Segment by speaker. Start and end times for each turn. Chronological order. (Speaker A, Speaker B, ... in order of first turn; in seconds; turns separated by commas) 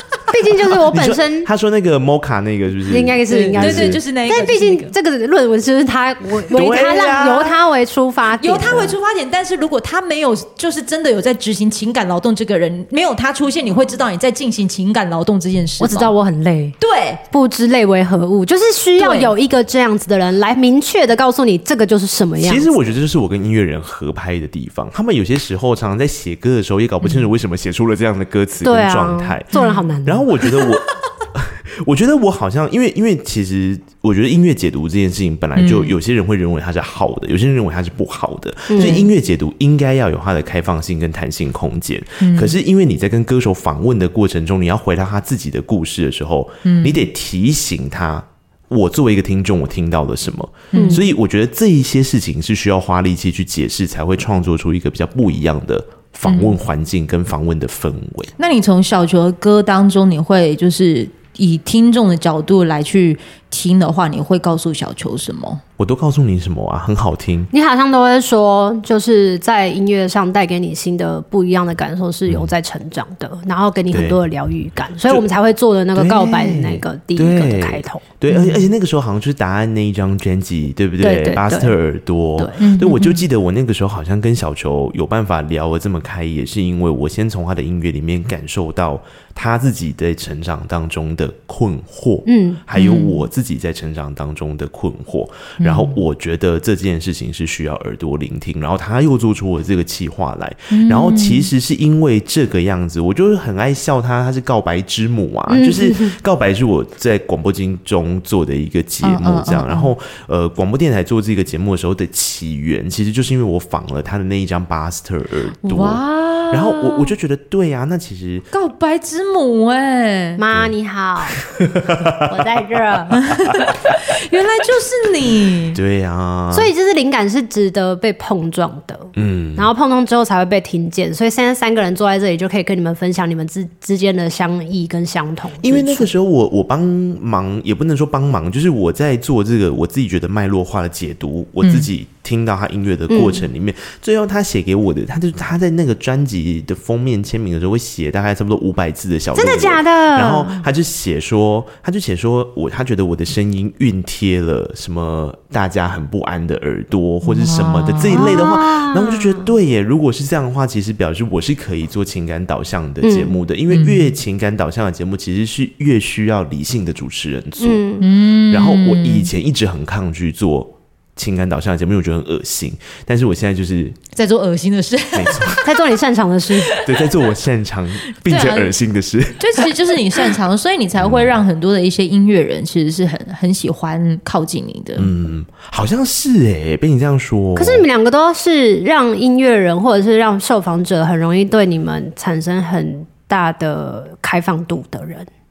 Speaker A: 0.3-1.5, Speaker B: 0.9-4.0, Speaker A: 2.9-8.9, Speaker C: 3.3-4.9, Speaker B: 6.5-7.5, Speaker C: 8.4-16.1, Speaker A: 15.8-16.8, Speaker C: 16.8-17.2, Speaker A: 17.3-22.7, Speaker C: 19.0-19.3, Speaker B: 22.4-29.5, Speaker C: 27.0-27.3, Speaker A: 28.6-30.5, Speaker C: 29.5-29.9, Speaker B: 30.1-58.3, Speaker C: 35.5-35.9, Speaker A: 38.7-39.1, Speaker C: 42.2-42.5, Speaker C: 46.6-47.0, Speaker C: 50.7-51.0, Speaker A: 50.7-51.0, Speaker C: 56.3-56.6, Speaker C: 58.4-65.6, Speaker B: 65.8-67.5, Speaker A: 67.5-78.0, Speaker B: 72.3-72.5, Speaker B: 73.9-74.2, Speaker B: 75.9-118.5, Speaker C: 78.3-78.7, Speaker A: 81.0-81.8, Speaker C: 82.6-83.2, Speaker A: 92.2-92.6, Speaker C: 92.7-93.2, Speaker C: 95.6-96.0, Speaker C: 100.7-101.5, Speaker A: 105.5-106.2, Speaker C: 109.0-109.9, Speaker C: 115.6-117.1, Speaker C: 118.5-120.4, Speaker A: 120.4-121.4, Speaker B: 121.5-122.2, Speaker A: 122.2-123.2, Speaker C: 123.2-125.8, Speaker B: 125.7-126.7, Speaker A: 126.5-136.1, Speaker B: 129.1-129.7, Speaker B: 135.6-167.8, Speaker C: 141.6-141.9, Speaker A: 143.1-143.5, Speaker A: 149.3-150.7, Speaker C: 157.2-158.4, Speaker A: 158.1-159.5, Speaker A: 163.0-163.4, Speaker C: 163.7-164.1, Speaker A: 167.6-168.1, Speaker C: 168.0-169.3, Speaker B: 168.5-173.9, Speaker C: 174.1-175.7, Speaker B: 175.1-175.6, Speaker A: 175.6-176.7, Speaker C: 176.6-177.1, Speaker B: 176.8-179.7, Speaker C: 178.2-178.8, Speaker C: 179.4-185.1, Speaker B: 181.0-181.4, Speaker B: 184.9-187.8, Speaker A: 187.6-195.3